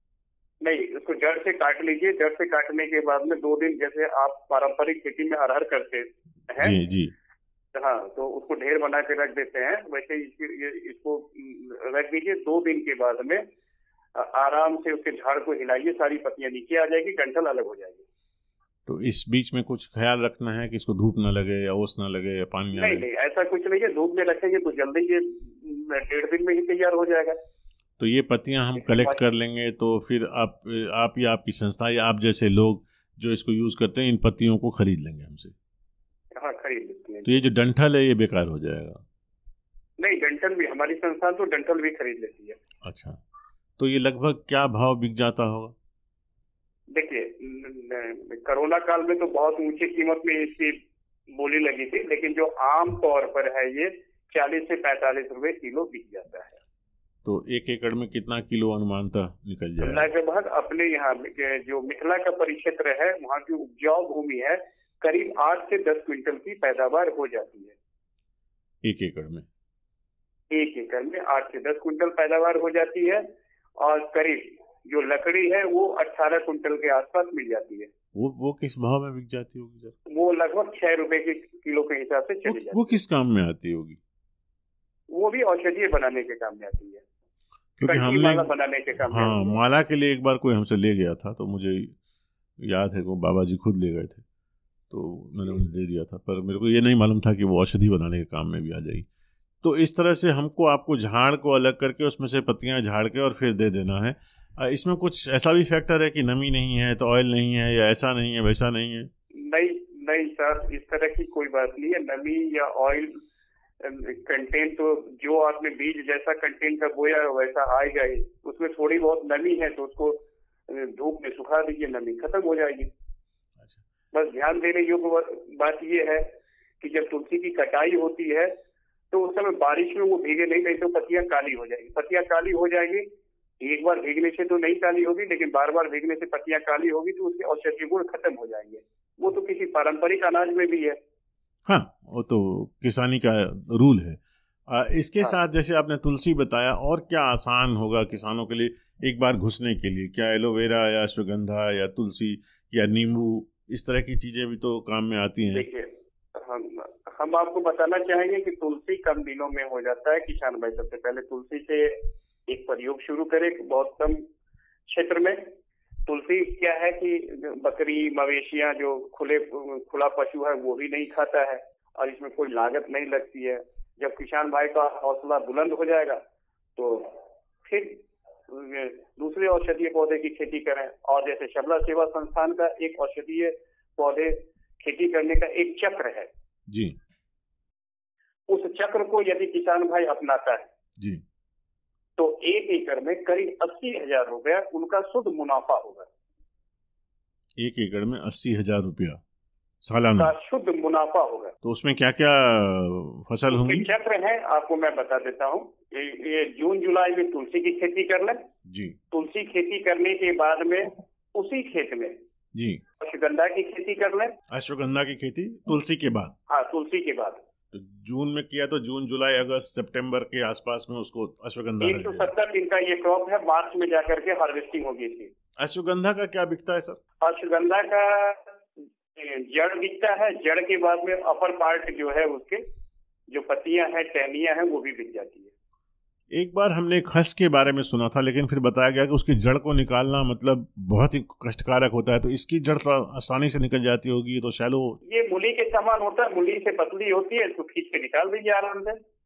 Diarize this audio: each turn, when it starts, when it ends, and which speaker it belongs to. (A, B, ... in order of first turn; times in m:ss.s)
0:00.6-0:06.8 A
0:06.6-0:07.1 B
0:07.8-0:13.4 A
0:14.2-0:18.0 A
0:18.9-0:23.0 B
0:22.7-0:27.4 A
0:28.0-0:35.5 B
0:28.9-0:29.2 A
0:36.4-0:37.4 A
0:37.2-0:39.0 B
0:40.0-0:42.6 A
0:42.8-0:43.2 B
0:43.8-0:45.8 B
0:46.9-0:50.8 A
0:51.3-0:56.6 A
0:57.2-1:00.1 B
0:59.8-1:07.8 A
1:08.8-1:09.5 B
1:10.5-1:13.2 A
1:13.8-1:17.9 A
1:18.2-1:19.9 B
1:20.1-1:22.9 A
1:22.5-1:24.0 B
1:25.1-1:27.0 A
1:27.8-1:32.0 B
1:27.8-1:29.6 A
1:32.6-1:34.2 B
1:34.9-1:39.1 B
1:39.6-1:49.1 B
1:49.4-1:53.2 A
1:53.8-2:02.9 A
2:03.6-2:03.8 B
2:04.1-2:06.3 A
2:06.8-2:08.6 A
2:09.1-2:13.1 A
2:13.6-2:21.0 A
2:21.7-2:35.7 B
2:35.4-2:44.2 A
2:44.9-2:45.5 A
2:46.1-2:56.2 A
2:56.8-3:06.3 A
3:06.7-3:07.0 B
3:08.5-3:10.7 A
3:12.2-3:16.1 A
3:17.6-3:19.2 B
3:19.8-3:20.3 B
3:20.2-3:21.5 A
3:21.6-3:23.9 B
3:23.5-3:28.4 A
3:28.7-3:29.0 B
3:29.1-3:32.2 A
3:32.6-3:32.8 B
3:33.0-3:34.4 A
3:34.5-3:36.3 B
3:36.5-3:37.4 A
3:37.7-3:42.3 B
3:41.8-3:45.3 A
3:45.6-3:47.0 B
3:47.2-3:48.4 A
3:49.2-3:52.6 A
3:53.3-3:55.5 A
3:56.3-4:05.0 B
4:05.0-4:09.0 A